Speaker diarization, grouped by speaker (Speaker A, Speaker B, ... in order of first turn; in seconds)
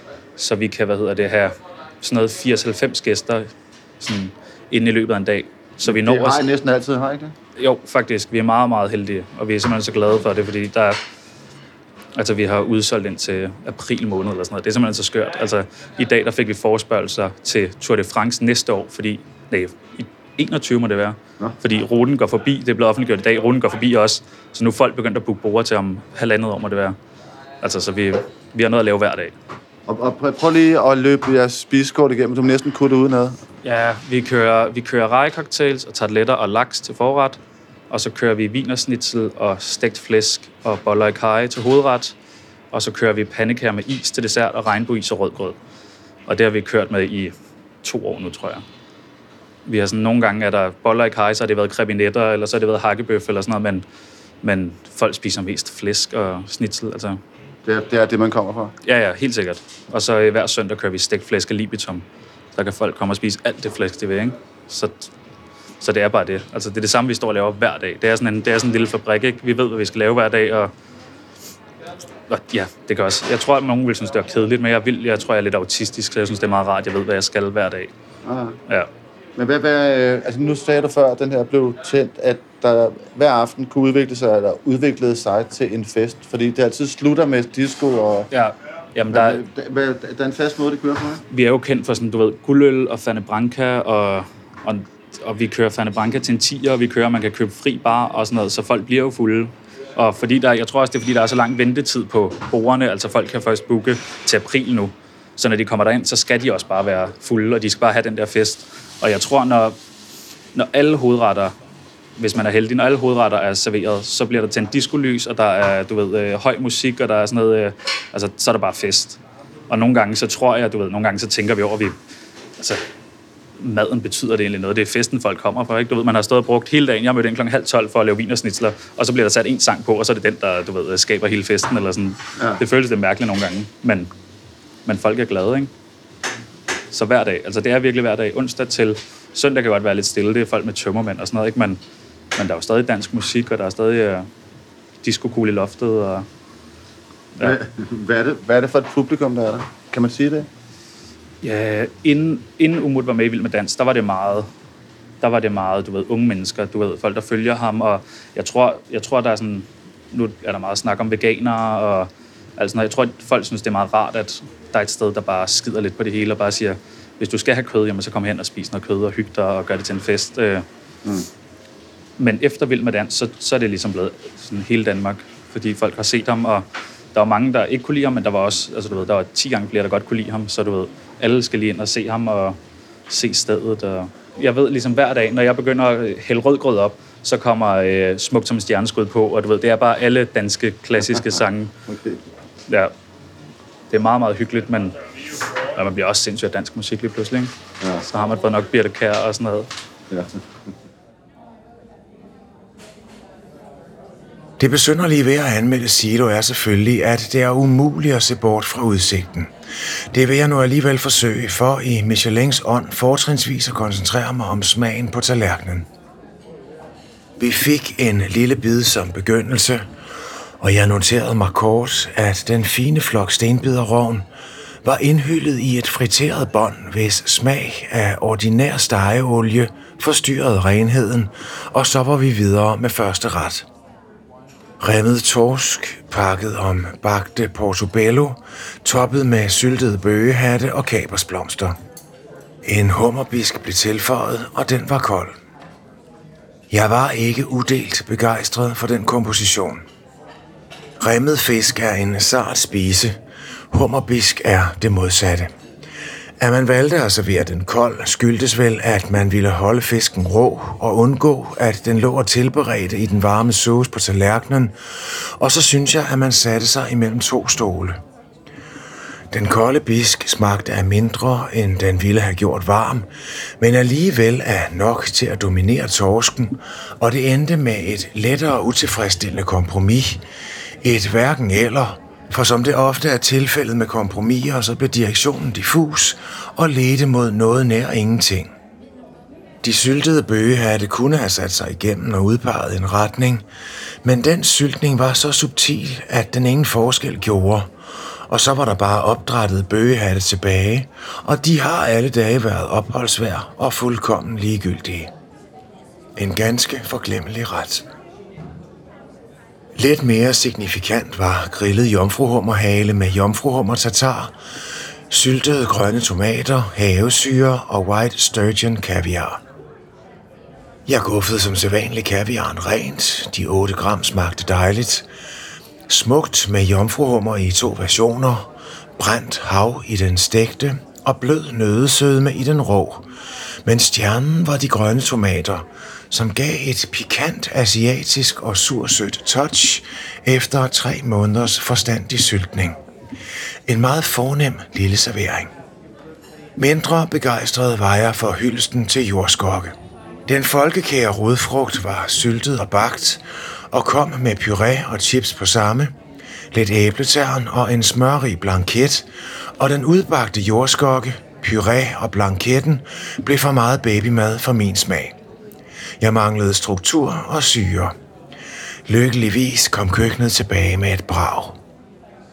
Speaker A: 0.4-6.4, 7.6-11.0, 12.2-26.9, 27.6-29.3, 33.6-37.4, 37.9-42.1, 42.7-45.5, 46.3-48.6, 49.6-53.8, 54.4-57.2, 58.8-62.0, 62.5-65.1, 65.8-70.7, 72.3-77.9, 88.3-89.4, 91.3-109.8, 110.5-111.5, 112.2-122.0, 123.6-134.1, 134.8-135.7, 136.9-141.8, 142.3-144.3, 145.0-146.2, 151.4-154.5, 155.2-170.6, 172.2-182.6, 183.1-191.7, 193.9-195.0, 195.7-199.7
Speaker B: 5.8-7.3, 29.9-33.4, 57.6-58.7, 78.2-78.6, 79.3-88.3, 89.1-91.2, 147.4-150.5, 191.9-192.2, 200.1-200.4
Speaker C: 204.6-209.5, 210.1-215.9, 217.4-219.8, 220.6-224.2, 224.8-233.7, 234.8-241.8, 242.6-245.3, 246.7-249.8, 251.0-253.2, 253.7-255.5, 256.4-268.0, 269.3-273.1, 273.6-280.2, 280.8-288.5, 289.6-293.4, 294.0-297.7, 298.3-305.1, 306.1-307.9, 309.7-314.3, 315.1-319.4, 320.9-325.1, 325.9-333.1, 333.6-342.8, 343.7-345.5, 346.6-355.9, 356.5-359.1, 359.6-365.1, 366.0-367.9, 368.9-371.6